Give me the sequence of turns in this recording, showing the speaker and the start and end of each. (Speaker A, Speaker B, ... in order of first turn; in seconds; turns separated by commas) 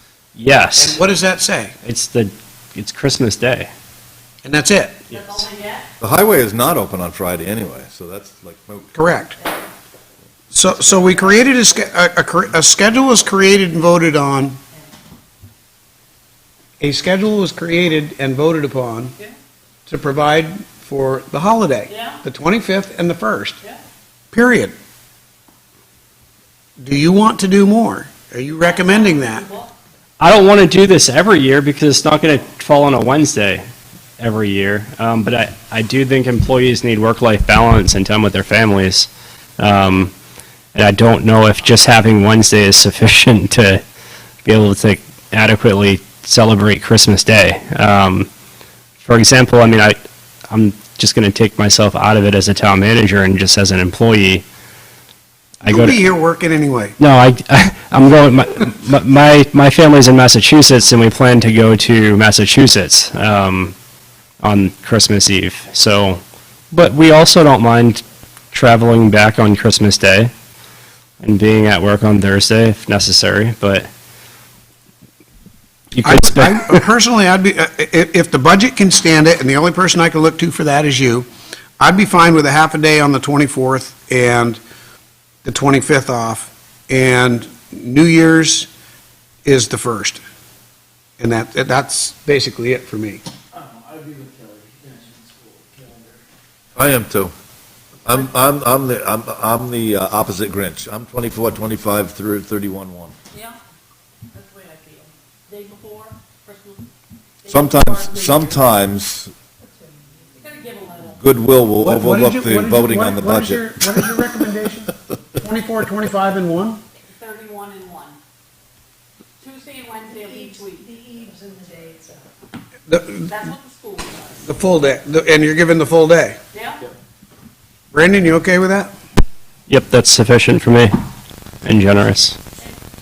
Speaker A: 0.3-1.0, Speaker B: 0.8-1.7, Speaker A: 1.8-3.7, Speaker B: 4.4-5.0, Speaker C: 5.1-5.9, Speaker D: 6.0-8.9, Speaker B: 8.9-9.4, Speaker B: 10.5-14.6, Speaker B: 16.8-19.1, Speaker B: 19.9-23.6, Speaker C: 21.9-22.2, Speaker B: 24.3-24.7, Speaker B: 26.8-29.4, Speaker C: 28.6-29.7, Speaker A: 30.2-33.6, Speaker A: 34.2-40.1, Speaker A: 40.7-43.8, Speaker A: 44.5-48.3, Speaker A: 49.0-50.0, Speaker A: 50.5-54.5, Speaker A: 55.6-56.0, Speaker B: 55.7-57.0, Speaker A: 57.0-63.8, Speaker A: 64.4-70.3, Speaker A: 71.2-73.9, Speaker A: 75.9-76.8, Speaker B: 76.0-81.3, Speaker B: 81.8-84.6, Speaker B: 85.5-88.7, Speaker B: 89.5-90.2, Speaker B: 91.2-93.2, Speaker E: 93.5-96.2, Speaker D: 96.8-97.3, Speaker D: 98.0-103.2, Speaker C: 103.3-103.6, Speaker C: 104.3-106.8, Speaker C: 107.4-108.6, Speaker D: 107.5-109.3, Speaker F: 109.9-110.3, Speaker C: 110.3-111.2, Speaker D: 111.2-114.2, Speaker B: 111.8-116.8, Speaker C: 117.1-118.2, Speaker C: 119.4-121.0, Speaker F: 120.2-122.2, Speaker B: 122.9-123.3, Speaker C: 123.2-124.5, Speaker B: 124.5-126.4, Speaker C: 126.5-126.8, Speaker B: 127.9-128.9, Speaker A: 129.7-130.9, Speaker A: 131.6-132.4